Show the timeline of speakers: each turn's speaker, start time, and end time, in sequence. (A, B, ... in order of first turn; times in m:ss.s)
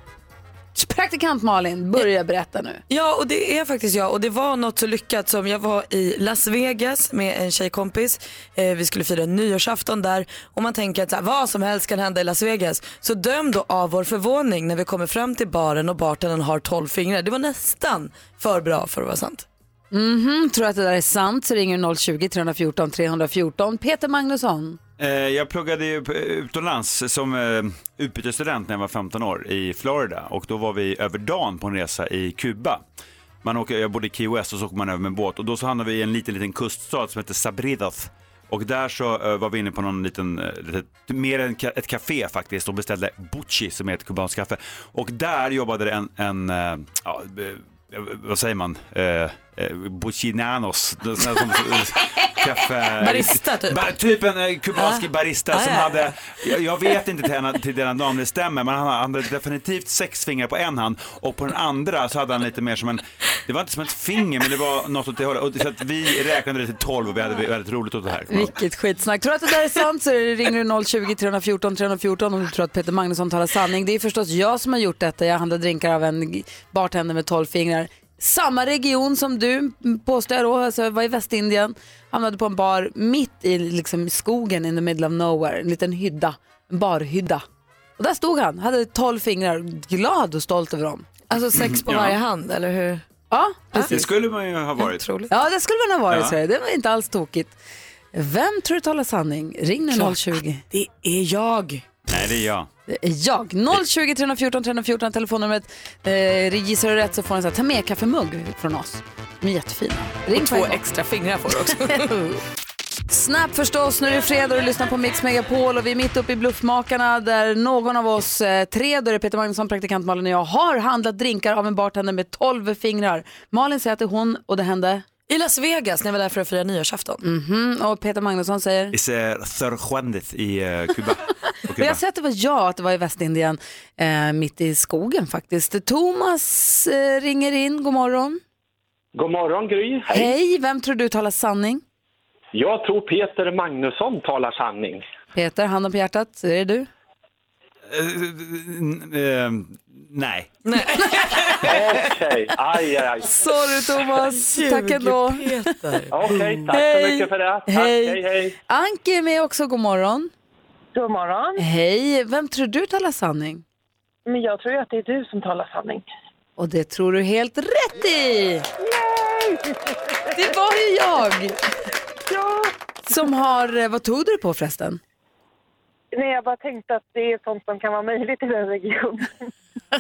0:00.7-0:02.8 A
0:02.9-0:19.4 B
0:19.9-0:24.8 A
0:25.0-0:32.8 C
0:33.4-1:08.6 C
0:53.0-0:53.9 B
0:54.8-0:56.1 B
1:08.3-1:27.4 A
1:28.0-1:31.2 A
1:31.3-1:33.0 B
1:31.5-1:32.2 C
1:33.3-1:34.0 A
1:33.7-1:34.1 B
1:33.9-1:35.0 C
1:34.8-1:35.3 B
1:35.3-1:37.5 A
1:36.1-1:36.3 C
1:38.1-1:40.6 A
1:39.9-1:41.9 B
1:42.1-1:42.7 C
1:42.9-1:50.8 A
1:50.3-1:52.2 B
1:51.9-1:52.3 A
1:53.1-2:05.0 A
2:05.3-2:07.2 B
2:07.2-2:08.9 A
2:08.9-2:12.0 C
2:11.8-2:18.4 A
2:19.2-2:20.3 D
2:20.1-2:21.8 A
2:22.5-2:25.0 D
2:25.3-2:26.9 A
2:27.9-2:30.6 C
2:30.6-2:31.7 B
2:31.7-2:33.4 D
2:33.2-2:35.7 A
2:34.3-2:36.3 B
2:36.1-2:38.5 D
2:36.3-2:40.3 A
2:40.9-2:41.6 E
2:41.6-2:43.6 A
2:44.3-2:46.0 E
2:46.6-2:48.6 A
2:49.0-2:49.6 E
2:50.3-2:51.5 A
2:53.1-2:55.0 A
2:56.1-2:59.3 E